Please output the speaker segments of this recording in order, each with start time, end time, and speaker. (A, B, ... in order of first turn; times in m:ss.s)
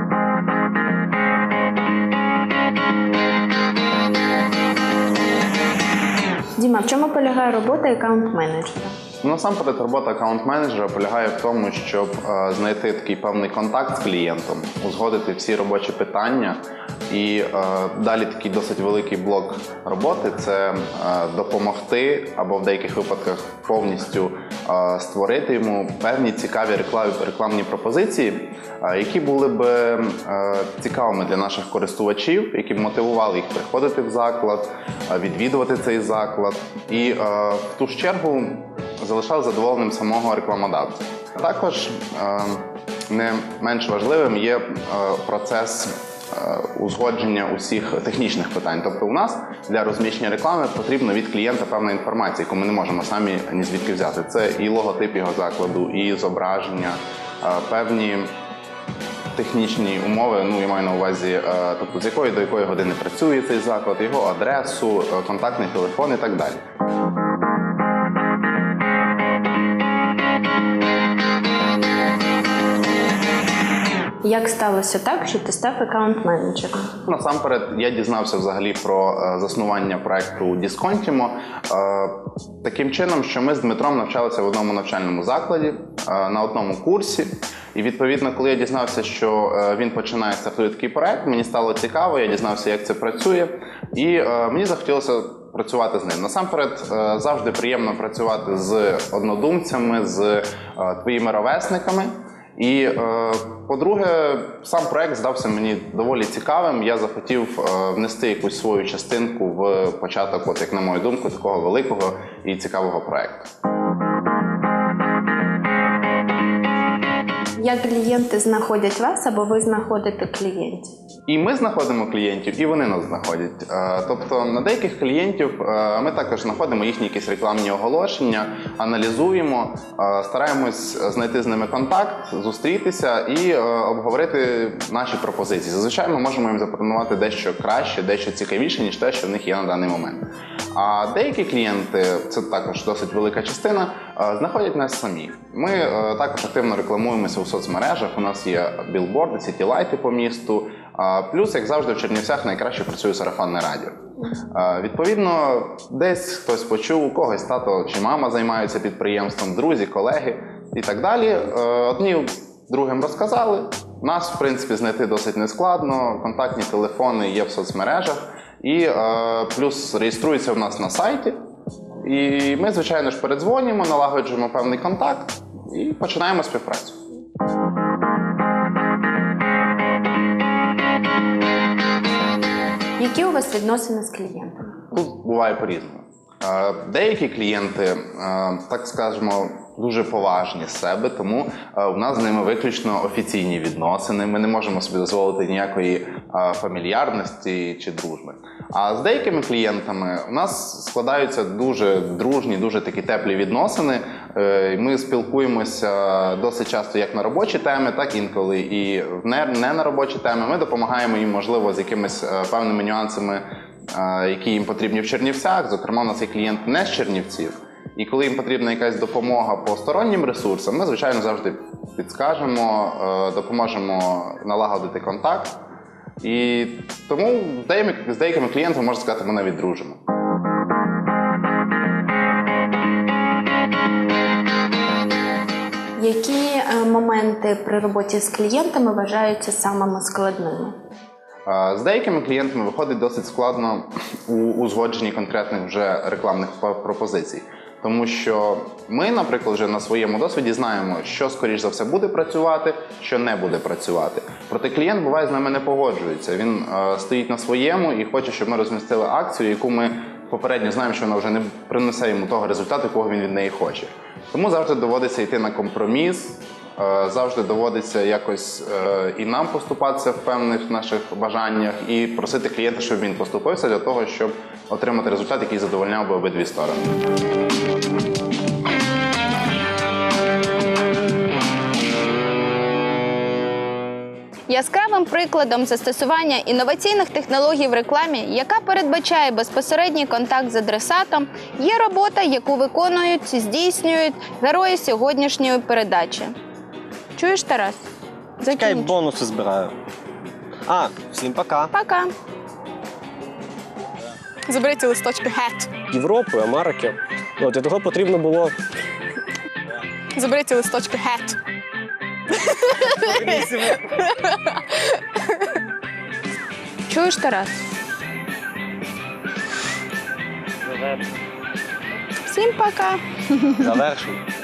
0:06.6-0:09.0 A
0:09.2-0:58.3 B
0:59.3-1:06.6 B
1:14.2-1:16.9 A
1:17.0-1:53.5 B
1:57.6-2:00.9 A
2:01.3-2:51.4 B
2:52.0-2:57.0 B
3:03.0-3:04.8 A
3:04.9-3:45.6 B
3:46.2-3:50.0 B
3:56.0-4:00.8 A
4:01.4-4:36.9 B
4:44.5-4:56.3 C
4:57.1-4:57.8 C
4:58.4-4:58.9 C
4:58.5-4:59.7 D
5:00.7-5:01.7 D
5:01.7-5:02.1 C
5:04.5-5:05.7 E
5:05.9-5:08.6 F
5:10.1-5:11.4 E
5:12.3-5:15.4 E
5:13.0-5:13.8 D
5:16.9-5:17.6 C
5:22.2-5:23.7 C
5:23.6-5:24.2 D